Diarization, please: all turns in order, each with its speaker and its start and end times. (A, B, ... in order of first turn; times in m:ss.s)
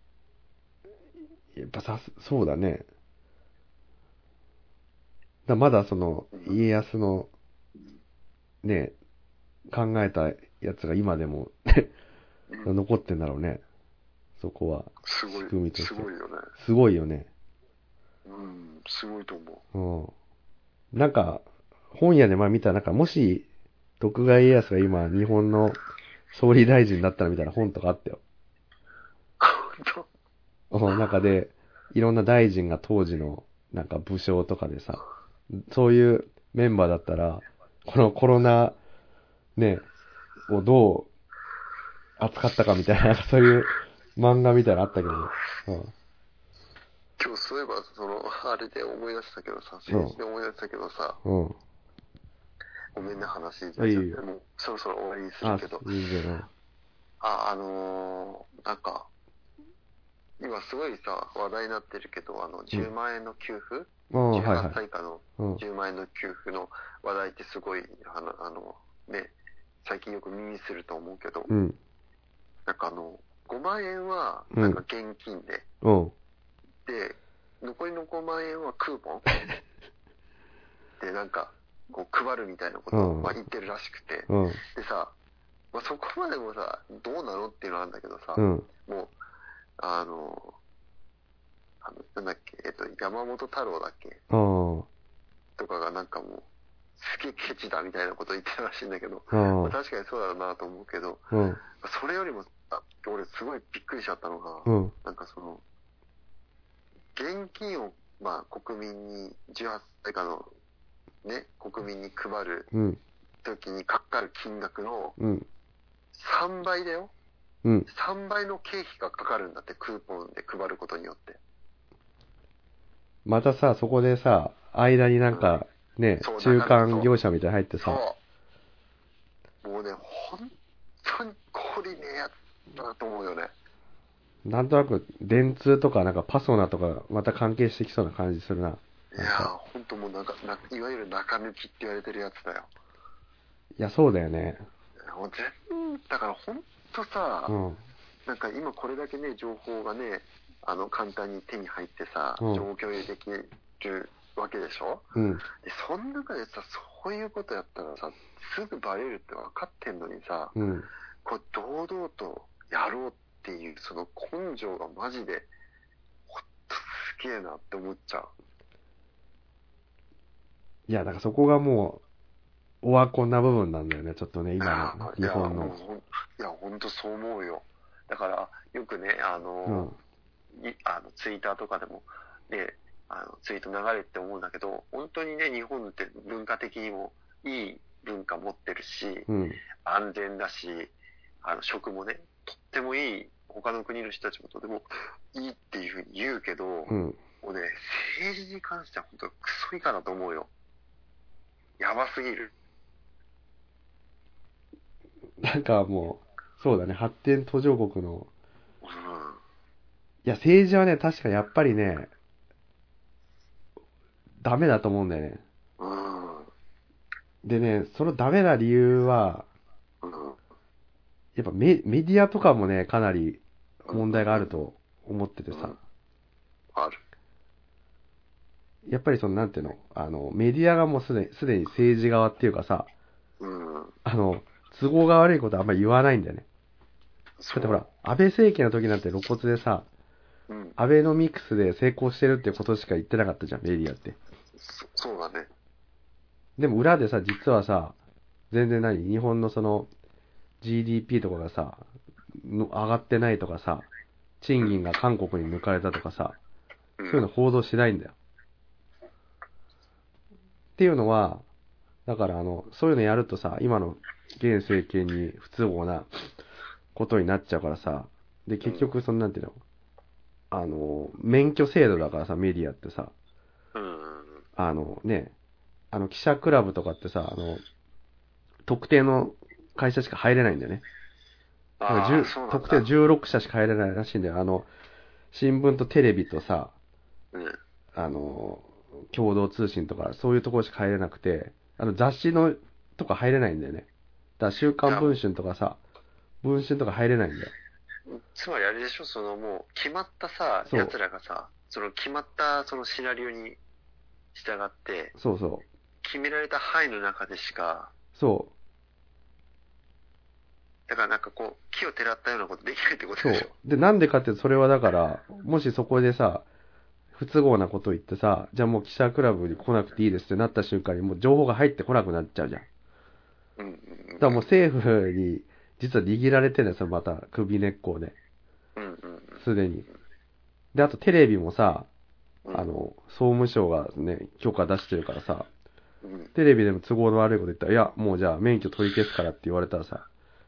0:01.5-0:02.8 A
0:05.5-0:07.3 A
0:06.3-0:06.6 B
0:08.6-0:08.9 A
0:09.7-0:11.9 A
0:12.5-0:12.8 B
0:12.6-0:13.6 A
0:14.4-0:17.3 A
0:15.0-0:16.5 B
0:18.2-0:19.6 B
0:19.7-0:20.1 A
0:20.9-0:23.4 A
0:24.0-0:25.8 A
0:26.3-0:28.2 A
0:29.4-0:30.1 B
0:30.7-0:38.8 A
0:39.6-0:39.8 A
0:40.5-0:41.1 A
0:42.2-0:45.9 A
0:47.2-0:51.2 B
0:49.9-0:50.2 A
0:51.2-0:51.6 A
0:52.9-0:55.9 B
0:53.8-0:54.2 A
0:55.4-0:56.5 A
0:57.2-0:59.1 B
1:00.4-1:11.5 B
1:04.1-1:04.8 A
1:11.5-1:11.8 A
1:12.6-1:15.6 B
1:14.5-1:14.8 A
1:15.8-1:16.1 A
1:16.8-1:19.3 B
1:21.0-1:25.1 B
1:22.9-1:23.4 A
1:24.3-1:24.6 A
1:25.7-1:29.1 B
1:28.4-1:28.7 A
1:29.8-1:30.6 B
1:31.8-1:34.2 B
1:34.3-1:34.9 A
1:35.6-1:41.2 B
1:39.3-1:39.8 A
1:41.3-1:41.6 A
1:41.8-1:45.6 B
1:44.6-1:44.9 A
1:47.1-1:50.5 B
1:51.2-1:52.7 B
1:52.7-1:53.0 A
1:53.4-1:55.2 B
1:55.2-1:55.5 A
1:56.1-1:57.1 B
1:57.9-2:01.4 B
2:03.2-2:08.0 A
2:05.3-2:05.6 B
2:06.2-2:07.1 B
2:07.8-2:08.2 B
2:09.6-2:13.5 B
2:14.4-2:19.5 A
2:19.1-2:22.7 B
2:23.8-2:24.6 A
2:25.1-2:27.6 B
2:27.5-2:27.8 A
2:28.2-2:40.6 B
2:32.4-2:32.6 A
2:35.1-2:35.4 A
2:40.5-2:40.9 A
2:41.2-2:45.5 B
2:46.3-2:48.3 B
2:50.9-2:52.0 A
2:52.8-2:55.7 A
2:54.6-2:59.9 B
2:59.7-3:00.0 A
3:00.5-3:09.3 B
3:09.3-3:09.6 A
3:09.8-3:10.9 B
3:11.4-3:20.5 B
3:16.9-3:17.2 A
3:21.8-3:22.5 B
3:25.4-3:28.3 A
3:28.8-3:29.4 B
3:30.2-3:32.1 A
3:34.4-3:35.4 A
3:35.8-3:36.5 B
3:37.4-3:39.4 A
3:40.0-3:40.4 B
3:41.4-3:45.8 A
3:43.9-3:44.6 B
3:45.5-3:45.8 B
3:46.7-3:47.0 B
3:48.8-3:52.9 A
3:53.4-3:53.9 B
3:54.0-3:56.4 A
3:57.4-3:57.8 B
3:57.5-3:59.8 A
4:00.5-4:00.8 B
4:00.8-4:04.2 A
4:04.6-4:05.5 B
4:06.6-4:08.0 A
4:08.5-4:09.9 A
4:10.6-4:11.8 A
4:12.4-4:13.9 A
4:14.4-4:16.4 A
4:17.0-4:17.2 B
4:17.1-4:18.1 A
4:20.8-4:21.4 A
4:22.0-4:26.3 A
4:26.9-4:29.6 A
4:28.6-4:28.9 B
4:30.5-4:33.1 A
4:33.7-4:34.4 B
4:34.6-4:35.3 A
4:35.9-4:37.6 A
4:38.6-4:40.8 A
4:41.8-4:42.9 B
4:41.9-4:44.7 A
4:45.3-4:46.7 A
4:47.3-4:47.6 B
4:47.9-4:53.9 A
4:54.4-4:55.8 A
4:54.8-4:55.2 B
4:56.4-4:57.5 A
4:58.1-5:03.6 B
5:00.7-5:00.9 A
5:04.3-5:05.1 B
5:05.2-5:05.6 A
5:06.0-5:07.9 B
5:08.2-5:08.5 A
5:10.9-5:13.5 B
5:13.2-5:16.4 A
5:17.1-5:22.6 A
5:23.6-5:24.5 B
5:24.2-5:28.1 A
5:28.8-5:29.4 B
5:29.4-5:29.8 A
5:30.7-5:31.9 A
5:32.4-5:32.8 B
5:32.5-5:35.5 A
5:36.0-5:36.3 B
5:36.3-5:40.1 A